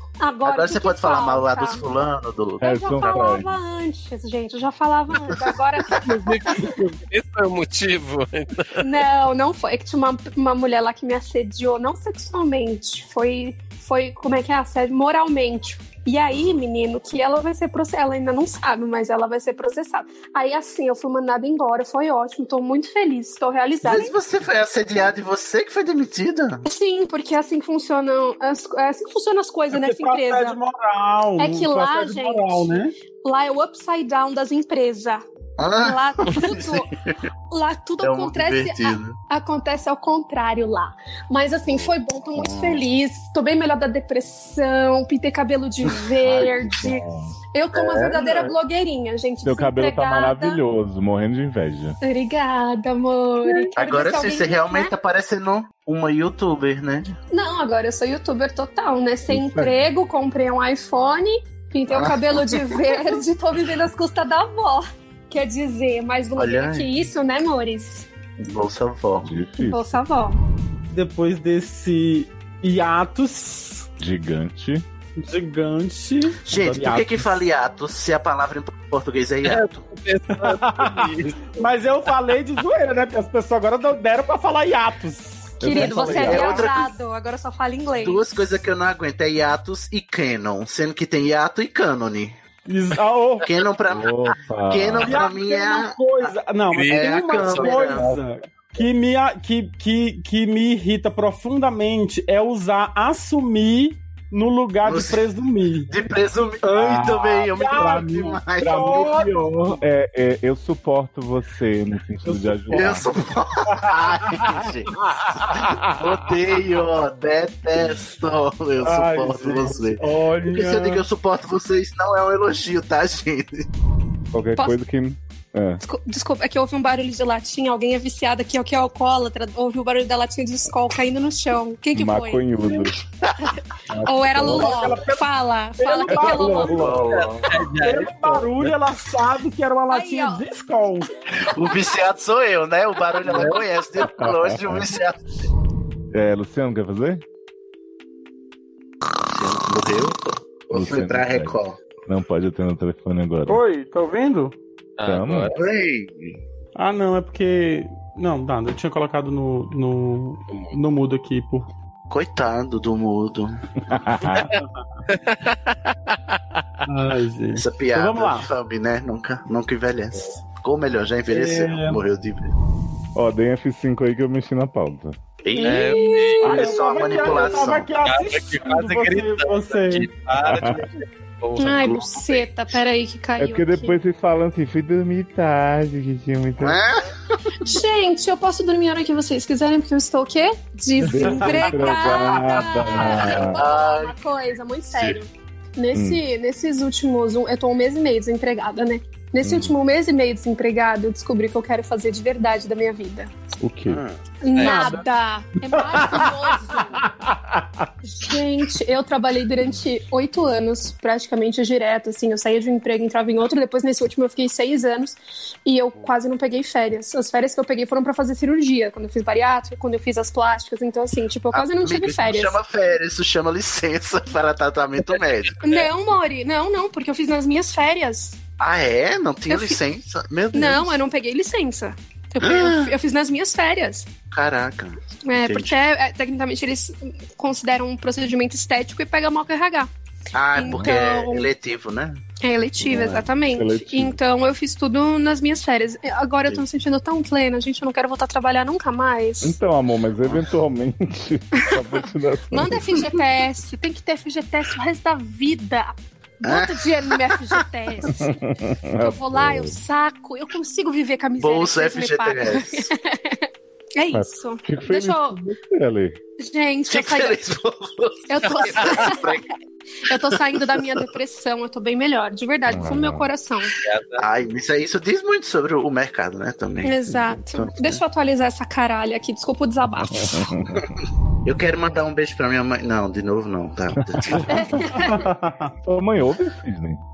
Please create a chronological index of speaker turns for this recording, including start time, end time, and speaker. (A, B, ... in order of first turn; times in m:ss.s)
0:00.2-0:01.8 A
0:00.4-0:02.6 B
0:02.6-0:03.6 C
0:02.6-0:06.6 A
0:05.9-0:09.0 D
0:08.8-0:24.2 A
0:23.8-0:26.6 B
0:26.7-0:30.6 A
0:29.7-0:33.0 E
0:31.4-0:35.2 A
0:35.6-0:37.2 B
0:35.8-0:36.9 A
0:37.5-0:50.6 A
0:38.0-0:39.2 B
0:42.4-0:42.8 B
0:46.2-0:47.4 C
0:46.3-0:46.7 B
0:47.8-0:48.3 B
0:49.4-0:52.0 C
0:52.0-0:54.9 A
0:53.8-0:57.1 B
0:57.3-1:08.1 A
0:59.3-0:59.7 C
1:01.9-1:03.2 B
1:06.4-1:06.9 B
1:08.4-1:09.3 B
1:09.2-1:10.0 C
1:09.6-1:10.4 A
1:10.9-1:13.9 E
1:14.0-1:14.8 C
1:15.2-1:17.3 E
1:16.4-1:19.8 B
1:19.4-1:22.1 D
1:20.3-1:26.6 E
1:25.6-1:26.7 C
1:25.6-1:28.2 A
1:26.1-1:26.9 B
1:28.0-1:32.3 B
1:32.7-1:33.5 E
1:33.4-1:36.4 B
1:33.9-1:35.2 C
1:35.0-1:46.0 E
1:36.7-1:38.1 D
1:36.9-1:38.1 B
1:44.8-1:45.3 B
1:45.9-1:49.2 B
1:46.6-1:49.8 E
1:47.7-1:53.1 C
1:52.2-1:53.0 E
1:52.7-1:54.9 B
1:53.7-1:56.0 E
1:55.5-2:03.7 B
1:58.8-2:01.0 E
2:04.3-2:05.8 C
2:05.8-2:12.9 A
2:11.9-2:13.0 C
2:13.2-2:13.5 B
2:13.4-2:16.8 A
2:13.9-2:15.0 C
2:14.4-2:16.9 E
2:16.1-2:17.1 C
2:16.7-2:17.6 B
2:17.1-2:18.7 D
2:17.5-2:21.1 E
2:19.9-2:20.4 A
2:21.4-2:25.2 B
2:24.1-2:24.9 C
2:26.1-2:27.2 C
2:29.2-2:31.8 B
2:30.7-2:31.6 C
2:32.1-2:33.6 C
2:33.5-2:34.6 E
2:35.0-2:35.6 D
2:35.0-2:35.5 C
2:35.5-2:36.4 B
2:36.8-2:41.7 E
2:40.5-2:40.8 D
2:42.1-2:44.0 B
2:43.9-2:44.5 C
2:45.1-2:46.4 D
2:46.8-2:48.5 E
2:47.6-2:52.5 B
2:51.3-2:52.0 E
2:53.2-2:55.2 C
2:55.4-2:57.9 B
2:55.6-3:00.1 E
2:55.6-2:56.7 D
2:56.0-2:56.4 A
2:58.0-3:01.9 D
3:00.4-3:00.9 C
3:01.6-3:02.5 B
3:01.6-3:04.0 A
3:03.4-3:06.8 C
3:06.6-3:07.1 B
3:07.6-3:23.3 A
3:11.0-3:13.6 C
3:11.1-3:12.6 E
3:13.2-3:14.2 B
3:14.9-3:15.2 B
3:15.9-3:16.2 C
3:19.4-3:19.8 C
3:23.6-3:24.0 C
3:23.9-3:24.2 B
3:24.4-3:27.0 A
3:24.5-3:25.0 D
3:24.6-3:25.0 E
3:25.8-3:27.9 E
3:28.0-3:42.6 A
3:41.5-3:45.6 B
3:45.6-3:48.4 A
3:48.6-3:51.0 B
3:49.5-3:49.8 A
3:50.5-3:54.1 A
3:52.4-3:53.0 B
3:54.3-3:55.8 B
3:55.3-3:59.9 A
4:00.3-4:02.2 B
4:00.5-4:01.5 A
4:02.4-4:09.6 A
4:02.8-4:03.2 B
4:03.4-4:04.2 C
4:09.4-4:13.1 C
4:11.7-4:18.3 A
4:16.4-4:17.5 B
4:18.1-4:19.8 C
4:19.0-4:23.5 A
4:21.4-4:22.9 B
4:24.0-4:25.4 A
4:24.1-4:26.2 C
4:26.4-4:27.4 A
4:26.9-4:29.5 B
4:28.3-4:29.4 A
4:30.0-4:33.8 A
4:30.1-4:31.1 B
4:32.7-4:33.3 C
4:33.8-4:34.2 D
4:34.2-4:38.0 B
4:36.8-4:40.4 A
4:40.1-4:40.9 C
4:41.4-4:44.5 B
4:44.0-4:44.6 C
4:44.5-4:45.3 A
4:45.0-4:45.7 E
4:45.8-4:47.0 C